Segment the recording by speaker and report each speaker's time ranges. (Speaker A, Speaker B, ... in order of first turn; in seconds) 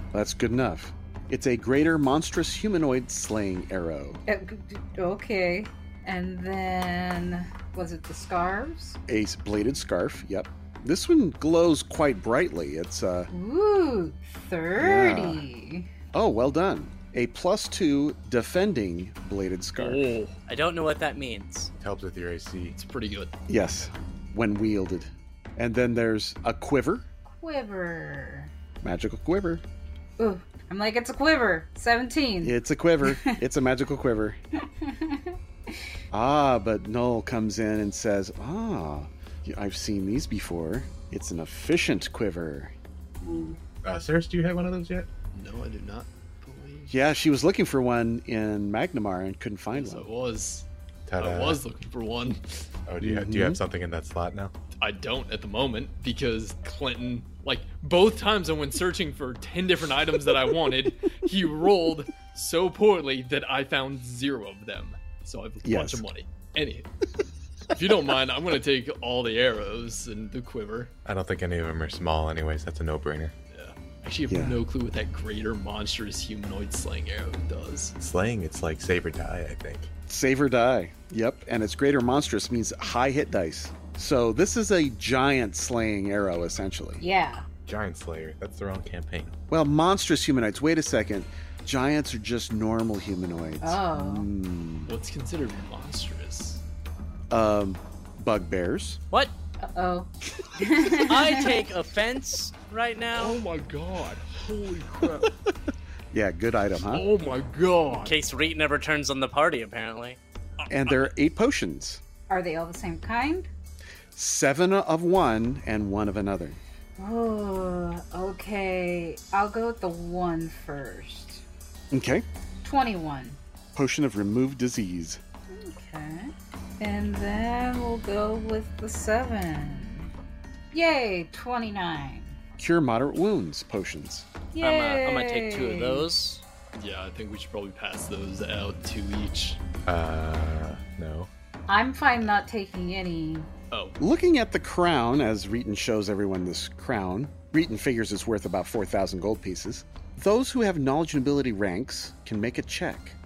Speaker A: 0.1-4.2, 9.1-13.3, 14.8-15.4, 16.1-20.1, 23.5-27.0, 28.8-29.6, 32.4-34.4, 36.1-42.7, 46.9-50.1, 53.0-53.6, 65.6-66.1, 74.3-74.6, 80.1-87.0, 89.5-94.9, 97.3-99.0, 106.1-107.1, 110.7-112.0, 114.1-116.6, 121.9-122.2, 123.7-125.2, 132.6-134.3, 144.0-153.2
Speaker B: 4.3-9.0, 13.3-15.9, 27.3-28.5, 30.2-33.4, 34.7-35.7, 87.0-87.5, 93.6-94.3, 99.6-101.6, 112.3-113.5, 117.0-121.4, 122.6-123.4, 125.5-130.1, 130.7-132.4, 134.5-136.1, 141.7-143.5
Speaker C: 19.8-20.4, 22.8-23.3, 45.3-47.0, 49.7-50.7, 51.2-52.7, 54.8-66.9, 67.7-70.9, 73.5-77.9, 94.9-96.6, 103.2-105.3, 106.8-108.2, 110.6-111.1, 136.8-139.6, 143.7-144.0
Speaker D: 20.5-21.7, 101.0-103.4, 108.0-110.2, 134.6-136.4
Speaker E: 21.8-22.8, 43.7-45.1, 51.1-51.6, 52.9-54.5, 71.0-73.3, 78.0-79.9, 87.7-89.3, 139.9-141.3